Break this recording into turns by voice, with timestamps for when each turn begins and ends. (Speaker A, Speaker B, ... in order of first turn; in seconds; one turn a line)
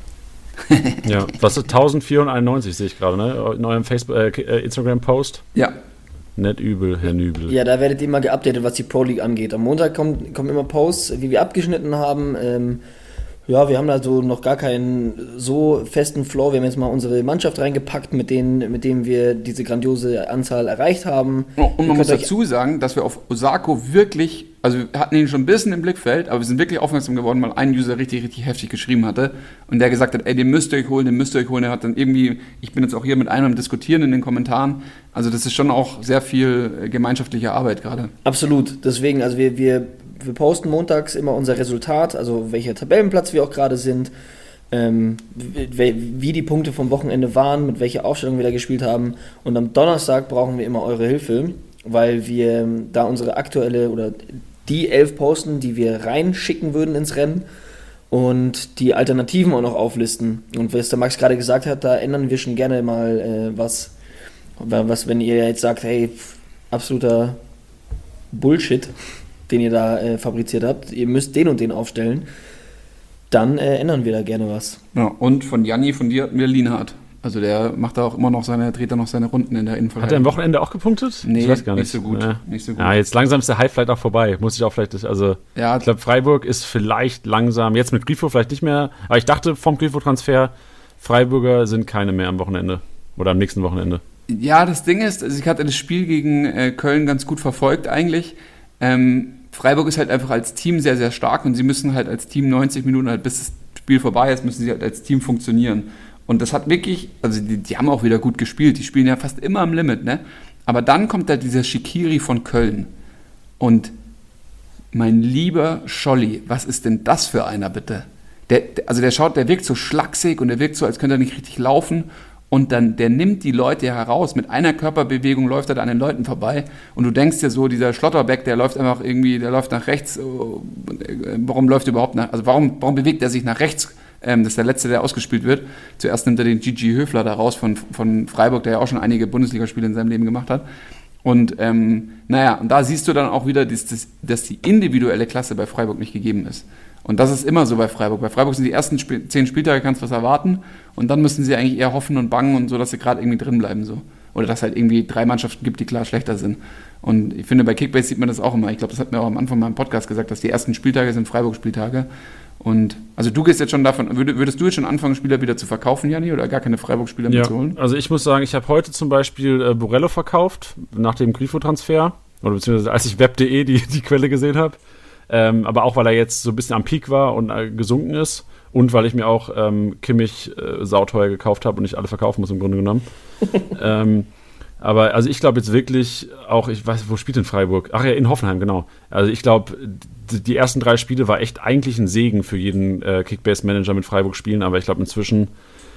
Speaker A: 0.6-1.1
Speaker B: 1.0-5.4
Speaker B: 6.4-7.5
Speaker C: 7.5-12.8
Speaker C: 13.5-22.3
Speaker A: 21.6-38.1
Speaker C: 38.2-44.1
Speaker C: 44.7-57.4
Speaker C: 58.1-63.9
Speaker C: 64.6-67.4
Speaker C: 68.3-68.9
Speaker C: 69.5-72.3
Speaker C: 73.3-74.8
Speaker A: 74.9-80.4
Speaker B: 80.0-94.0
Speaker A: 81.2-83.0
Speaker A: 85.5-85.9
Speaker A: 94.3-112.9
Speaker A: 113.6-113.9
Speaker A: 114.9-140.6
Speaker A: 141.2-162.1
Speaker A: 162.6-167.8
Speaker B: 167.3-174.8
Speaker B: 175.3-183.0
Speaker B: 183.6-184.3
Speaker B: 184.8-195.5